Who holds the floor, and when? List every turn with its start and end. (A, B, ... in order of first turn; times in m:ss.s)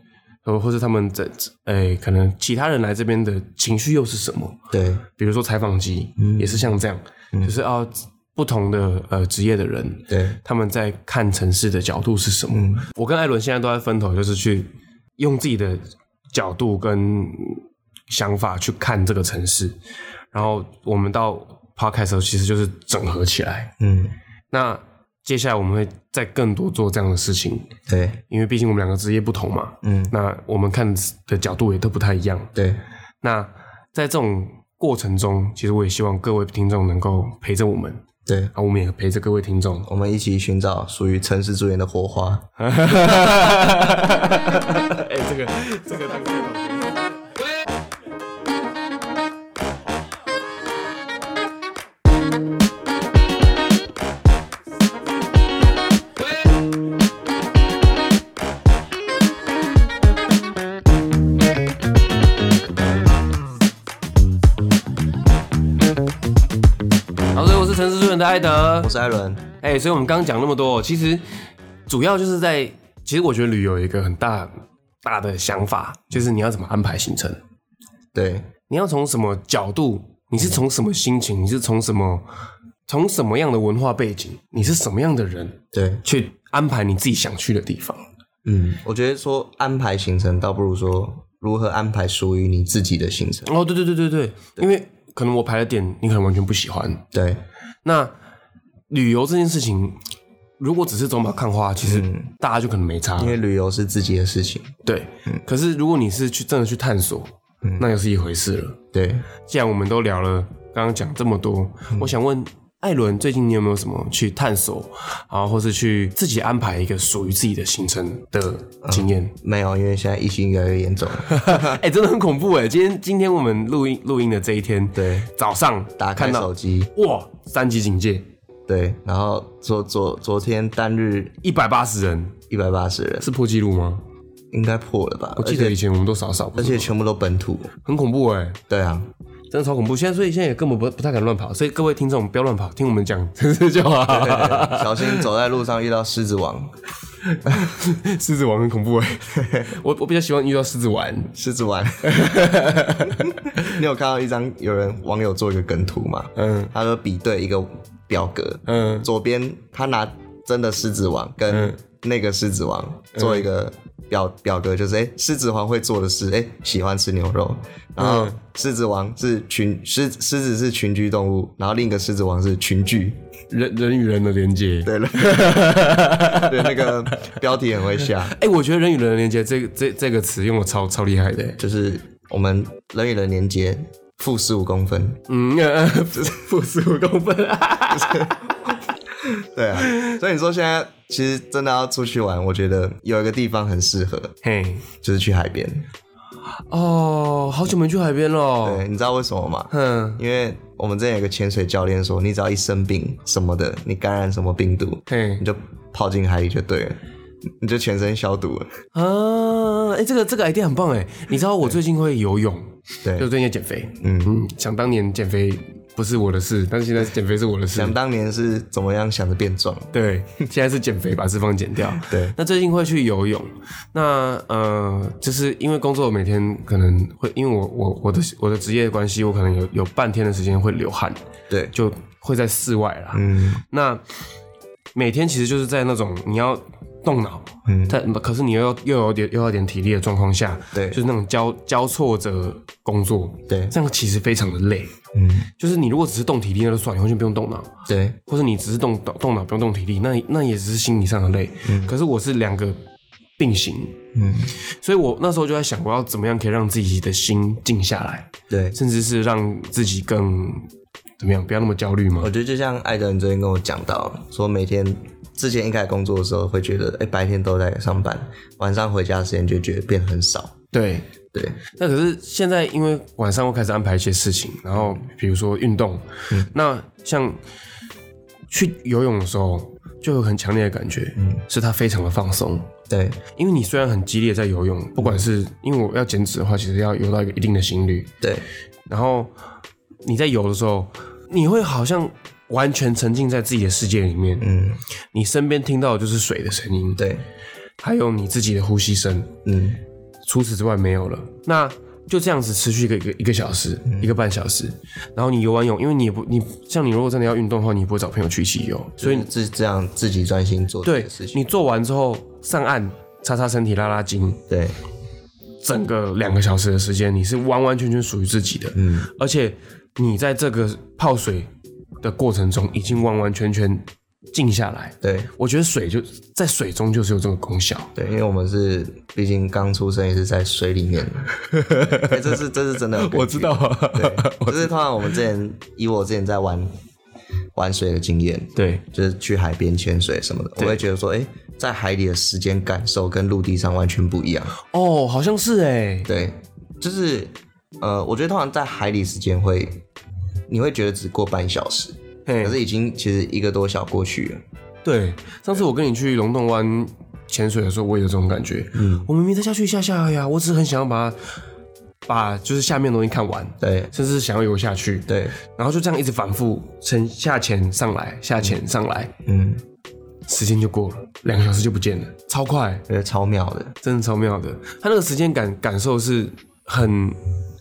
0:00.4-0:04.6 A
0:04.7-0:05.0 B
0:05.2-0:15.8 A
0:06.2-0:06.7 B
0:10.1-0:10.4 B
0:12.5-0:12.8 B
0:16.3-0:19.8 A
0:20.3-0:23.7 A
0:23.8-0:24.1 B
0:24.5-0:27.7 A
0:27.9-0:28.2 B
0:28.3-0:32.5 A
0:29.8-0:30.1 B
0:32.5-0:32.8 B
0:33.2-0:38.0 A
0:38.2-0:38.5 B
0:38.5-0:39.9 A
0:39.9-0:42.4 B
0:42.6-0:47.0 A
1:07.3-1:08.9 A
1:08.8-1:09.4 B
1:09.6-1:11.2 A
1:11.9-1:14.5 A
1:15.0-1:17.4 A
1:18.1-1:18.5 B
1:18.7-1:22.2 A
1:22.9-1:28.0 A
1:25.7-1:26.0 B
1:28.4-1:33.5 B
1:33.5-1:37.0 A
1:37.1-1:37.4 B
1:37.8-1:38.1 A
1:38.9-1:40.0 A
1:40.6-1:43.4 A
1:41.8-1:42.3 B
1:43.2-1:44.8 B
1:44.8-1:48.8 A
1:48.9-1:49.2 B
1:49.4-1:59.3 A
1:58.8-2:01.8 B
2:01.2-2:08.3 A
2:04.9-2:05.3 B
2:06.0-2:06.9 B
2:08.7-2:11.4 B
2:11.4-2:12.4 A
2:12.5-2:13.3 B
2:13.2-2:14.0 A
2:14.5-2:15.8 B
2:15.4-2:16.9 A
2:16.5-2:17.7 B
2:17.8-2:18.6 A
2:18.7-2:19.1 B
2:19.5-2:25.3 A
2:24.1-2:26.7 B
2:27.3-2:31.3 A
2:29.4-2:29.7 B
2:31.3-2:32.3 B
2:32.0-2:33.8 A
2:33.0-2:53.2 B
2:36.4-2:36.7 A
2:38.7-2:39.1 A
2:41.5-2:41.8 A
2:43.2-2:43.5 A
2:48.0-2:48.4 A
2:53.5-2:57.4 A
2:54.8-2:58.4 B
2:58.2-3:01.6 A
3:01.6-3:05.2 B
3:05.3-3:08.8 A
3:08.0-3:08.3 B
3:09.2-3:14.3 B
3:09.8-3:10.2 A
3:14.4-3:14.8 A
3:15.0-3:15.9 B
3:16.7-3:18.8 A
3:18.6-3:27.0 B
3:19.7-3:20.2 A
3:25.1-3:25.4 A
3:27.6-3:28.7 B
3:28.9-3:37.9 A
3:34.0-3:34.3 B
3:37.7-3:39.9 B
3:39.9-3:51.2 A
3:42.1-3:42.3 B
3:51.7-3:54.0 A
3:53.1-3:53.6 B
3:54.9-4:04.9 A
3:57.7-3:58.0 B
4:00.7-4:01.0 B
4:03.5-4:03.7 B
4:05.1-4:05.5 B
4:05.6-4:07.7 A
4:07.9-4:08.2 B
4:08.2-4:12.8 A
4:11.6-4:11.9 B
4:13.4-4:14.0 A
4:14.2-4:14.5 B
4:14.8-4:20.7 A
4:18.5-4:18.8 B
4:21.2-4:22.3 A
4:22.2-4:30.5 B
4:30.7-4:31.1 A
4:31.3-4:31.6 B
4:31.8-4:37.4 A
4:38.5-4:42.7 A
4:42.9-4:43.2 B
4:43.4-4:48.1 A
4:48.9-4:49.3 A
4:50.0-4:54.5 A
4:54.4-4:54.8 B
4:55.1-4:57.1 A
4:57.0-4:57.2 B
4:57.8-4:59.3 A
4:59.5-4:59.8 B
5:00.2-5:09.3 A
5:09.0-5:11.4 B
5:10.8-5:14.4 A
5:14.5-5:14.8 B
5:15.6-5:21.5 A
5:18.8-5:19.1 B
5:22.0-5:27.9 A
5:25.0-5:25.3 B
5:28.0-5:31.3 B
5:31.5-5:32.4 A
5:31.9-5:36.7 B
5:32.9-5:34.7 A
5:37.5-5:44.5 B
5:38.6-5:38.8 A
5:44.6-5:46.1 A
5:46.1-5:49.8 B
5:50.5-5:54.4 B
5:52.3-5:52.6 A
5:54.8-6:01.4 A
5:58.8-5:59.1 B
6:02.1-6:09.1 A
6:03.6-6:03.9 B
6:05.1-6:05.4 B
6:09.2-6:09.6 B
6:10.3-6:12.8 A
6:12.9-6:13.8 B
6:13.8-6:17.2 A